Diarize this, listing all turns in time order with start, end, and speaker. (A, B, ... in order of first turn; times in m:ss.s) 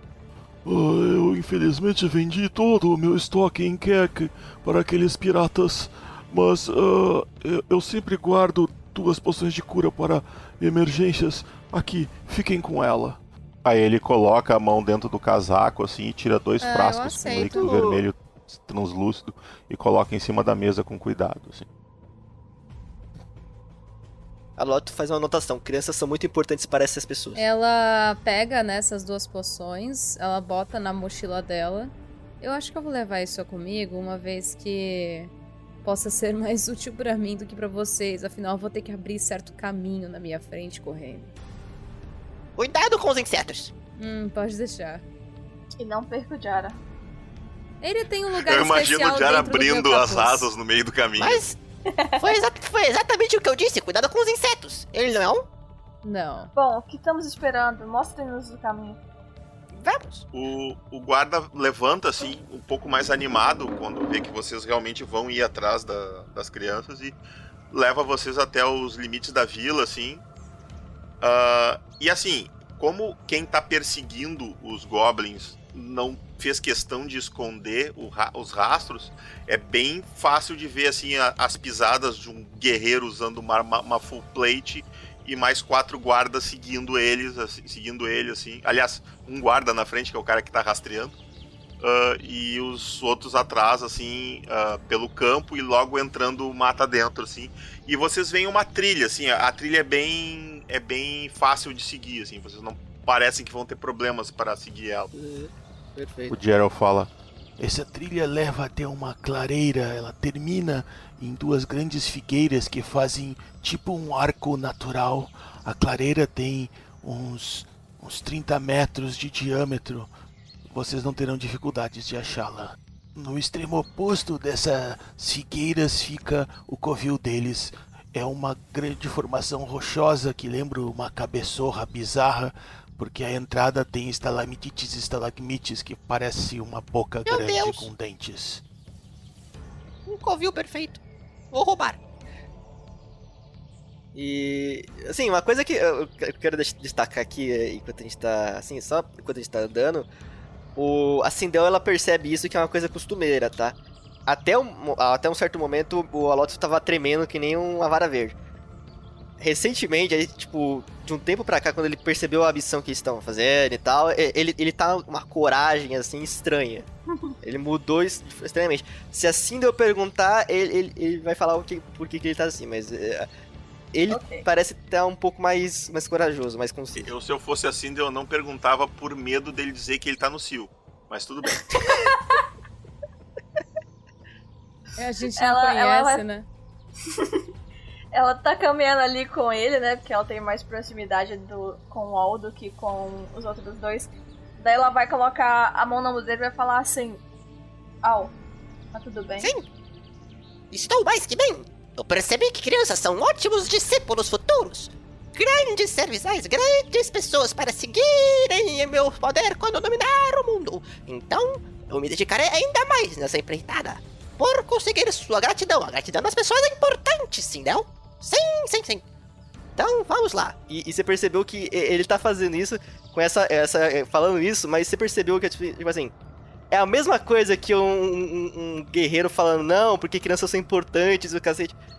0:00.6-0:13.2 A
0:13.6-0:21.7 B
0:16.6-0:17.7 C
0:17.3-0:18.0 D
0:24.6-0:27.4 D
0:27.4-0:35.3 C
0:35.8-0:41.3 C
0:42.6-0:43.7 E
0:44.0-0:45.0 C
0:45.8-0:46.8 F
0:47.8-0:50.5 C
0:48.4-0:51.4 B
0:51.2-0:51.6 E
0:52.0-0:52.3 F
0:52.2-0:55.5 E
0:56.0-0:56.5 C
0:56.6-0:59.0 F
0:59.7-1:00.2 E
1:00.3-1:07.2 B
1:07.7-1:10.2 B
1:11.2-1:31.2 B
1:31.8-1:45.1 B
1:45.1-1:46.4 D
1:46.3-1:47.1 B
1:47.6-2:00.1 A
2:00.7-2:18.6 A
2:17.3-2:17.9 E
2:20.1-2:21.0 E
2:21.5-2:22.0 E
2:24.2-2:30.1 D
2:30.8-2:38.4 D
2:39.4-2:46.9 D
2:47.4-2:53.3 D
2:53.9-2:57.1 D
2:54.1-2:54.5 F
2:57.0-3:02.0 B
3:01.7-3:02.4 F
3:05.0-3:06.5 C
3:05.4-3:06.2 F
3:07.1-3:07.4 F
3:08.1-3:17.2 F
3:18.0-3:18.3 F
3:18.9-3:19.5 F
3:19.4-3:19.7 E
3:20.7-3:39.0 E
3:39.8-3:40.6 E
3:40.7-3:46.1 D
3:46.7-3:51.8 D